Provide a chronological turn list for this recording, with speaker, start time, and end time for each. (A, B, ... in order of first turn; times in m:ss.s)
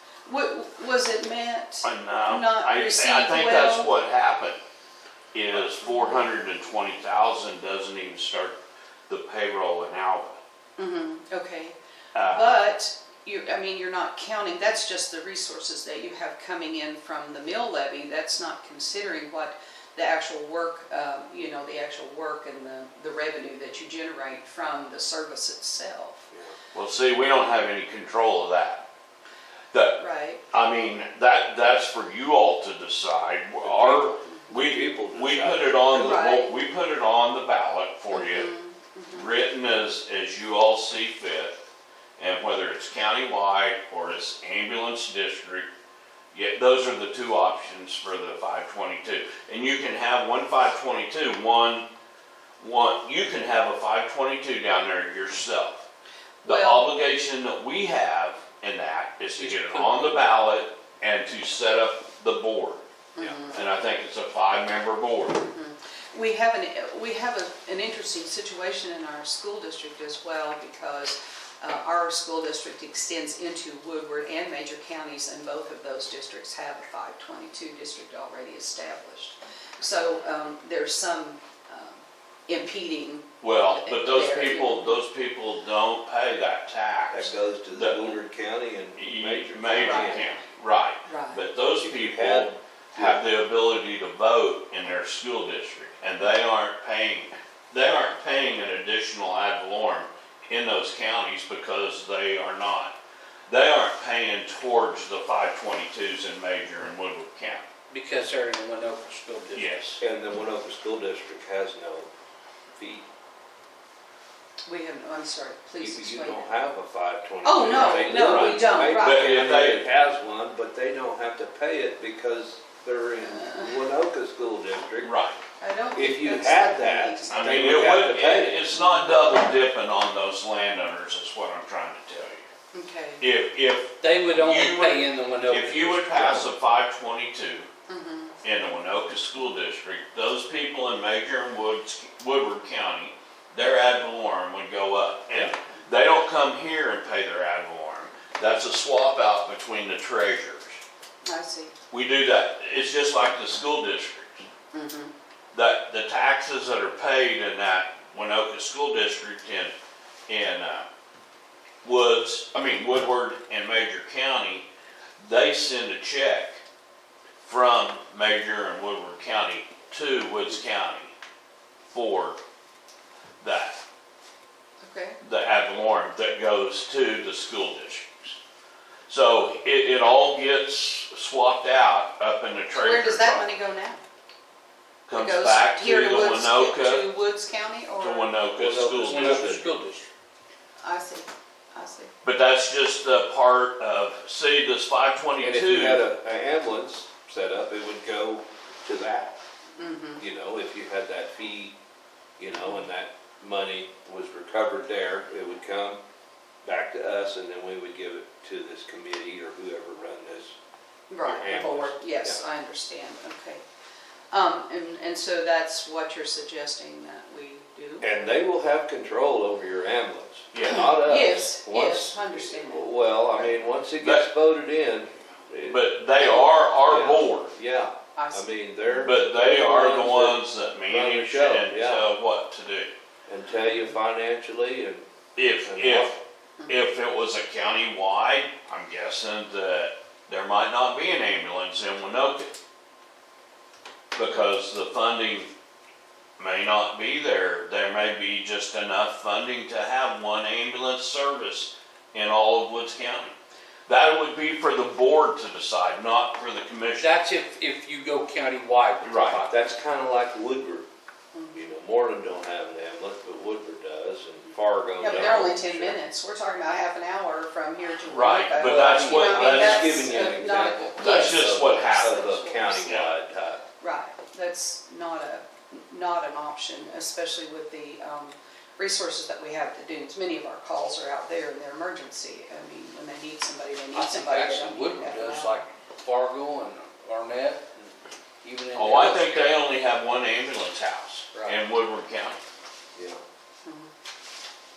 0:00.3-0:03.9 A
0:01.8-0:04.6 B
0:05.3-0:08.6 B
0:09.1-0:10.4 B
0:10.8-0:26.3 A
0:12.2-0:12.6 B
0:26.7-0:28.8 B
0:29.7-0:30.0 B
0:30.0-0:30.4 A
0:30.5-0:38.5 B
0:33.6-0:36.3 C
0:36.0-0:36.5 A
0:38.1-0:39.3 A
0:39.1-0:41.6 B
0:42.2-0:45.7 B
0:46.3-0:51.9 B
0:52.6-0:55.8 B
0:56.4-1:02.8 B
0:56.4-0:56.9 A
0:59.4-1:00.3 D
1:03.2-1:03.6 A
1:03.4-1:05.4 B
1:05.5-1:25.0 A
1:23.4-1:28.2 B
1:27.1-1:30.3 C
1:29.0-1:43.0 B
1:29.7-1:30.2 A
1:31.1-1:31.4 A
1:31.8-1:33.2 C
1:43.5-1:47.7 B
1:47.9-1:49.7 D
1:49.5-1:50.0 B
1:50.0-1:52.1 C
1:52.8-1:53.1 C
1:54.7-1:56.4 A
1:55.8-2:05.1 C
1:57.4-1:59.4 A
1:57.7-1:59.9 B
2:03.3-2:03.7 A
2:05.0-2:05.4 B
2:05.6-2:08.2 A
2:05.9-2:08.7 C
2:07.3-2:12.5 B
2:12.7-2:13.2 A
2:13.2-2:17.7 B
2:14.0-2:16.5 D
2:17.9-2:18.4 A
2:18.4-2:30.8 B
2:31.2-2:31.7 A
2:31.9-2:34.4 B
2:34.7-2:35.1 A
2:35.5-2:39.7 B
2:40.3-2:40.9 B
2:41.8-2:44.6 B
2:45.2-2:46.6 B
2:47.4-2:51.1 B
2:51.9-2:52.4 B
2:53.4-2:53.8 B
2:54.8-2:55.2 A
2:55.2-2:58.4 B
2:59.1-3:03.5 B
3:02.7-3:04.0 A
3:05.1-3:07.1 B
3:05.1-3:08.4 A
3:08.0-3:09.5 B
3:08.6-3:09.8 C
3:09.0-3:10.1 D
3:10.8-3:12.1 A
3:12.2-3:16.0 B
3:15.4-3:19.4 C
3:19.8-3:20.2 A
3:20.2-3:21.8 C
3:22.4-3:26.0 C
3:26.6-3:30.6 C
3:31.1-3:33.6 A
3:31.2-3:32.4 C
3:34.3-3:38.3 A
3:38.0-3:52.1 C
3:40.5-3:40.9 B
3:40.7-3:42.9 A
3:43.4-3:44.3 B
3:45.7-3:47.5 B
3:48.2-3:48.5 A
3:49.0-3:52.9 B
3:53.3-3:55.0 C
3:55.4-3:56.1 B
3:55.6-3:56.2 C
3:56.7-4:02.6 B
4:04.1-4:05.5 B
4:06.4-4:13.3 B
4:13.9-4:17.2 B
4:17.0-4:19.6 D
4:19.0-4:19.4 B
4:19.3-4:20.9 C
4:21.5-4:26.0 C
4:25.0-4:32.9 A
4:28.1-4:30.2 B
4:28.6-4:30.7 D
4:29.2-4:33.6 C
4:31.0-4:33.1 B
4:33.8-4:45.6 A
4:43.9-4:47.8 D
4:48.4-4:49.6 D
4:48.8-4:52.4 B
4:53.0-4:53.2 C
4:53.6-4:53.9 A